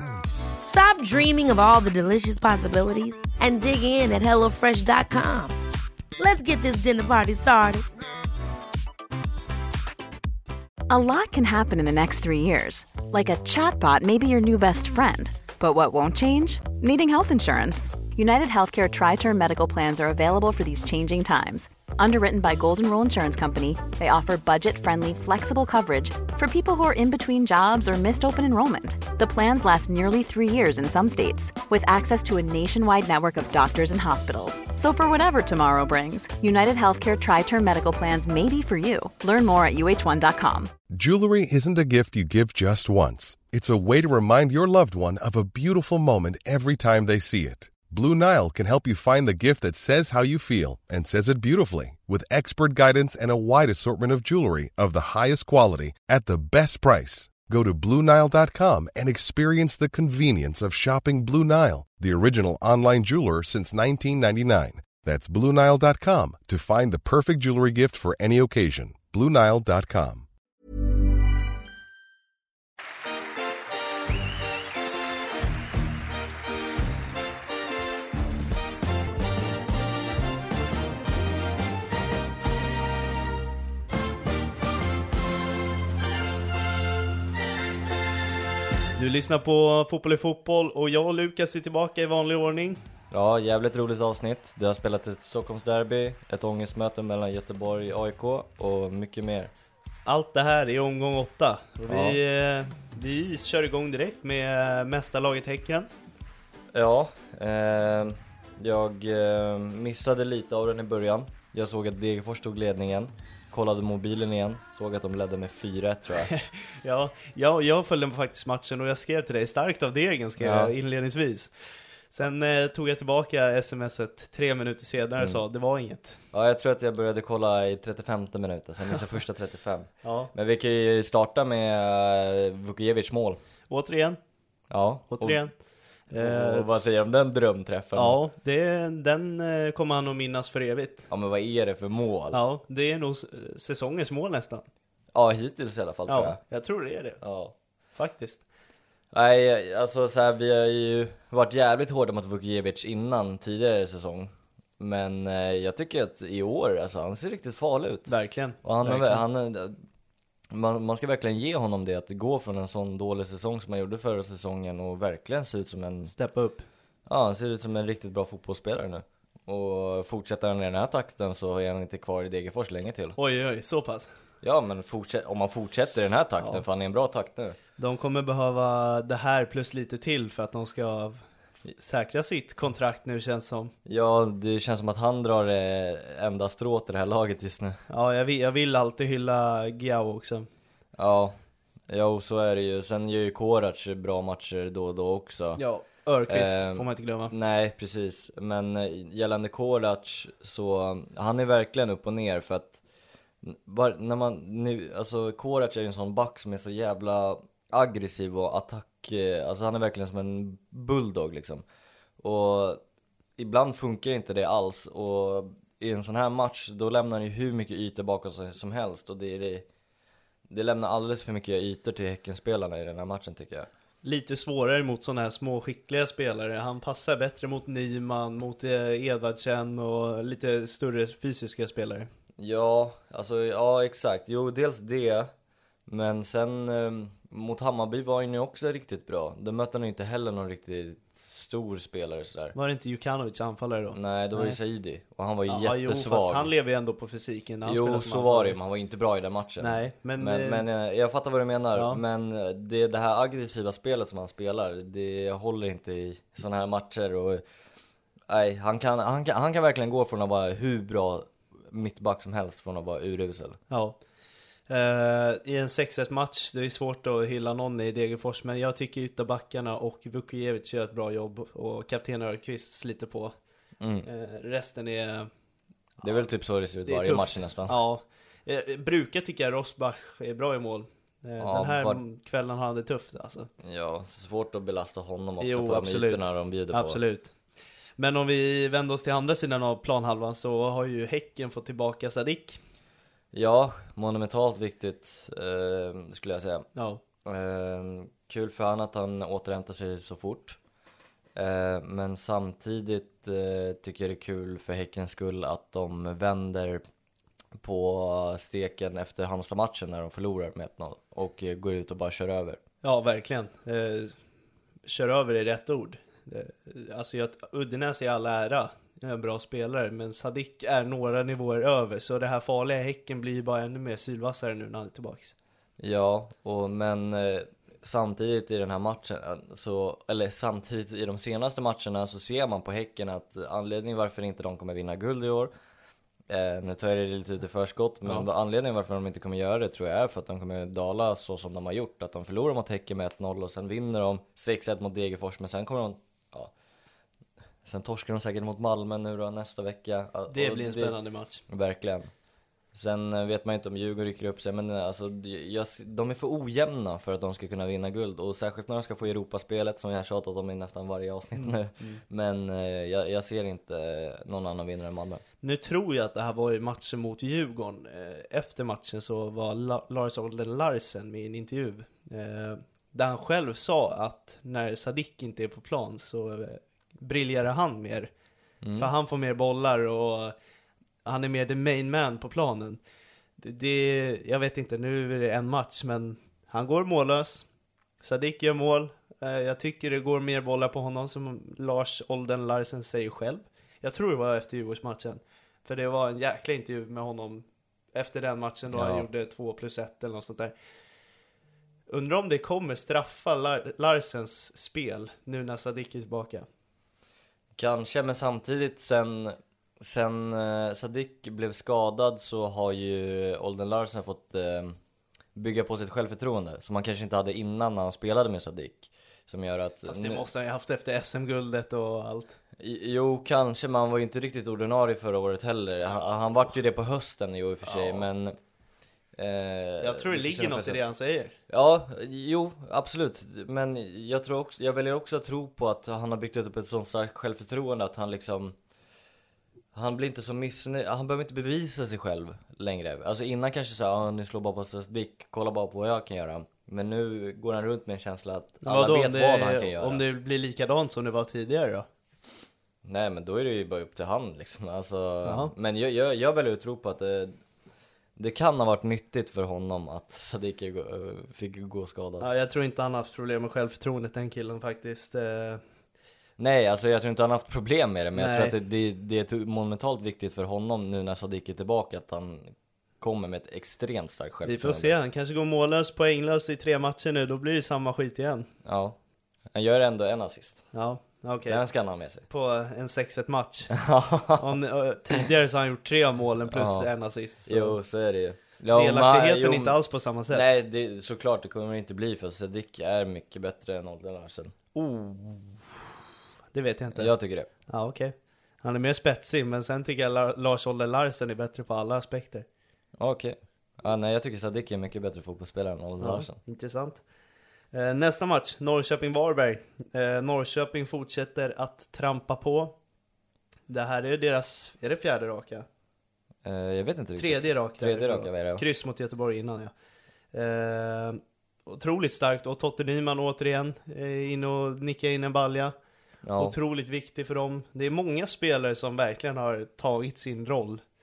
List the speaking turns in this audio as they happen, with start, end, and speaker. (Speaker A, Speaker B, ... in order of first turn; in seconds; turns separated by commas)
Speaker A: 0.6-5.5, Speaker A: 6.2-7.8, Speaker B: 10.9-40.7, Speaker C: 40.9-70.3, Speaker D: 89.0-92.8, Speaker E: 93.1-99.5, Speaker D: 100.0-105.9, Speaker E: 101.9-102.2, Speaker E: 106.7-116.3, Speaker D: 116.1-121.5, Speaker E: 120.4-120.7, Speaker D: 122.1-126.2, Speaker E: 125.2-125.4, Speaker E: 126.3-133.4, Speaker D: 130.0-130.3, Speaker D: 133.7-134.2, Speaker E: 134.7-135.4, Speaker D: 135.1-135.5, Speaker D: 136.1-136.7, Speaker E: 136.1-138.2, Speaker D: 137.9-141.1, Speaker E: 141.1-142.4, Speaker D: 142.3-144.6, Speaker E: 145.1-146.4, Speaker D: 146.1-147.2, Speaker E: 147.2-147.5, Speaker D: 147.9-148.4, Speaker E: 149.1-159.8, Speaker D: 158.1-159.2, Speaker E: 160.5-166.1, Speaker D: 166.0-166.6, Speaker E: 167.1-173.2, Speaker D: 173.2-174.1, Speaker E: 174.4-177.6, Speaker D: 177.8-183.7, Speaker E: 183.8-187.8, Speaker D: 187.9-190.5, Speaker E: 190.9-191.3, Speaker E: 191.9-195.6, Speaker D: 195.6-197.3, Speaker E: 196.3-202.8, Speaker E: 203.4-211.6, Speaker E: 212.2-212.8, Speaker E: 213.4-219.7, Speaker E: 220.5-223.7, Speaker D: 224.0-232.1, Speaker E: 232.4-235.3, Speaker E: 235.9-242.5, Speaker D: 242.5-244.6, Speaker E: 243.9-246.5, Speaker D: 245.5-248.6, Speaker E: 247.6-257.4, Speaker D: 249.6-250.6, Speaker D: 251.7-252.0, Speaker E: 258.3-263.6, Speaker D: 263.7-264.0, Speaker D: 264.7-273.3, Speaker E: 273.8-274.1, Speaker D: 274.1-275.3, Speaker E: 276.0-277.8, Speaker D: 276.9-283.5, Speaker E: 281.4-282.0, Speaker E: 283.6-287.0, Speaker D: 285.4-287.3, Speaker D: 288.0-292.6, Speaker E: 293.3-296.7, Speaker D: 296.8-297.0, Speaker E: 297.2-300.6, Speaker E: 301.4-306.8, Speaker E: 307.6-312.6, Speaker D: 312.8-314.1, Speaker D: 314.9-325.3, Speaker E: 325.8-335.5, Speaker E: 336.3-346.5, Speaker E: 347.6-352.1, Speaker D: 350.3-351.4, Speaker E: 352.7-365.2, Speaker D: 361.4-362.0, Speaker D: 365.4-378.1, Speaker E: 378.6-378.9, Speaker D: 378.7-380.3, Speaker D: 381.0-382.8, Speaker D: 383.4-387.4, Speaker D: 388.0-400.5, Speaker E: 398.7-399.1, Speaker D: 401.9-406.5, Speaker E: 407.5-414.8, Speaker E: 415.3-420.2, Speaker D: 419.8-422.4, Speaker E: 422.6-428.4, Speaker D: 427.6-428.0, Speaker E: 429.1-430.8, Speaker D: 429.8-431.4, Speaker E: 431.5-438.5, Speaker E: 439.7-450.0, Speaker D: 448.6-451.9, Speaker E: 452.8-457.4, Speaker D: 455.2-455.5, Speaker E: 458.1-462.3, Speaker D: 462.2-465.6, Speaker E: 466.4-474.9, Speaker D: 468.1-468.5, Speaker D: 474.4-478.5, Speaker E: 478.6-479.0, Speaker E: 479.5-480.6, Speaker D: 480.7-481.6, Speaker E: 481.4-482.2, Speaker D: 482.2-483.7, Speaker E: 483.7-484.5, Speaker D: 484.3-487.8, Speaker E: 486.5-486.9, Speaker E: 487.4-489.8, Speaker D: 488.7-490.4, Speaker E: 490.3-494.7, Speaker D: 494.7-495.5, Speaker D: 496.5-497.1, Speaker E: 496.9-497.5, Speaker D: 497.7-502.4, Speaker E: 503.0-506.4, Speaker D: 506.0-507.0, Speaker D: 507.7-512.7, Speaker D: 513.7-515.6, Speaker E: 516.4-518.6, Speaker D: 517.2-519.7, Speaker D: 520.3-525.7, Speaker E: 526.2-526.5, Speaker D: 526.4-530.8